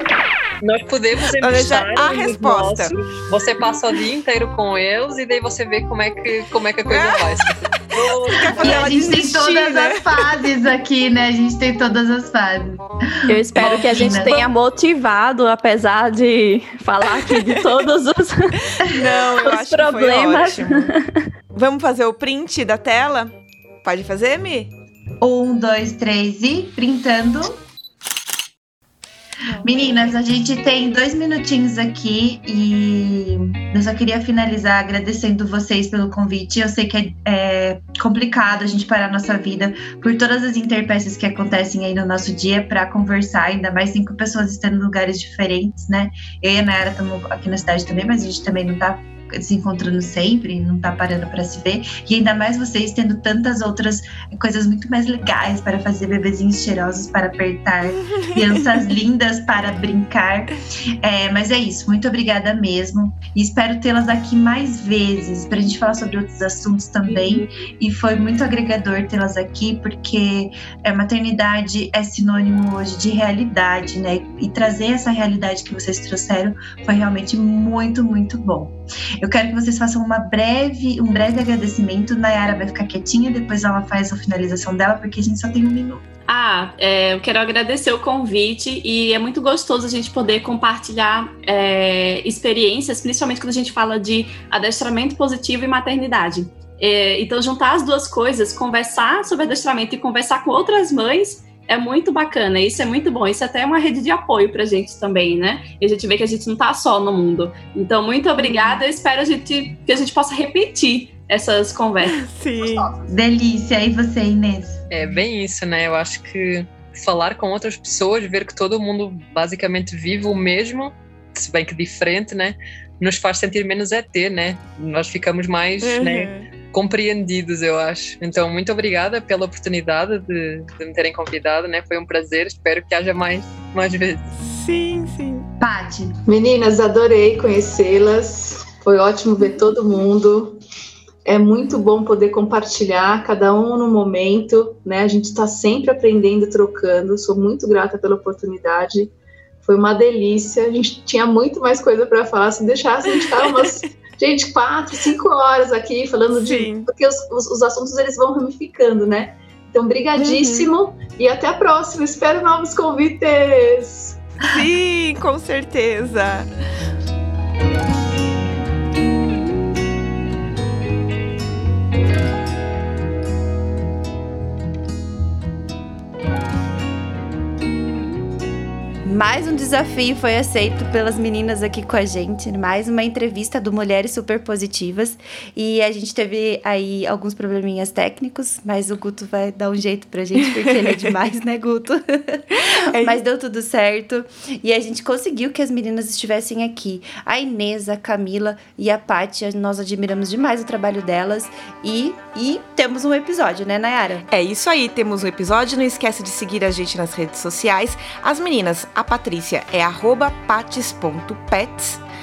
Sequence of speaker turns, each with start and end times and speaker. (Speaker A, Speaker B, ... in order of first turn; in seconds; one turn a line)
Speaker A: 0.6-9.2
Speaker B: 1.4-2.9
Speaker B: 6.9-10.0
Speaker C: 8.5-14.5
Speaker D: 13.3-21.2
Speaker B: 18.8-20.9
Speaker B: 21.5-23.3
Speaker B: 23.8-24.7
Speaker C: 25.2-27.6
Speaker B: 29.4-30.1
Speaker C: 29.6-86.0
Speaker B: 58.0-58.4
Speaker D: 86.3-112.2
Speaker B: 108.4-108.8
Speaker B: 112.0-112.9
Speaker C: 113.1-114.8
Speaker A: 114.9-134.3
Speaker B: 125.8-126.5
Speaker B: 134.3-135.5
Speaker C: 135.6-136.2
Speaker E: 136.3-140.6
Speaker E: 141.2-164.2
Speaker B: 153.2-153.6
Speaker B: 156.3-156.9
Speaker B: 160.2-160.7
Speaker B: 164.4-166.5
Speaker F: 179.0-204.3
Speaker B: 192.9-193.2
Speaker B: 204.3-212.0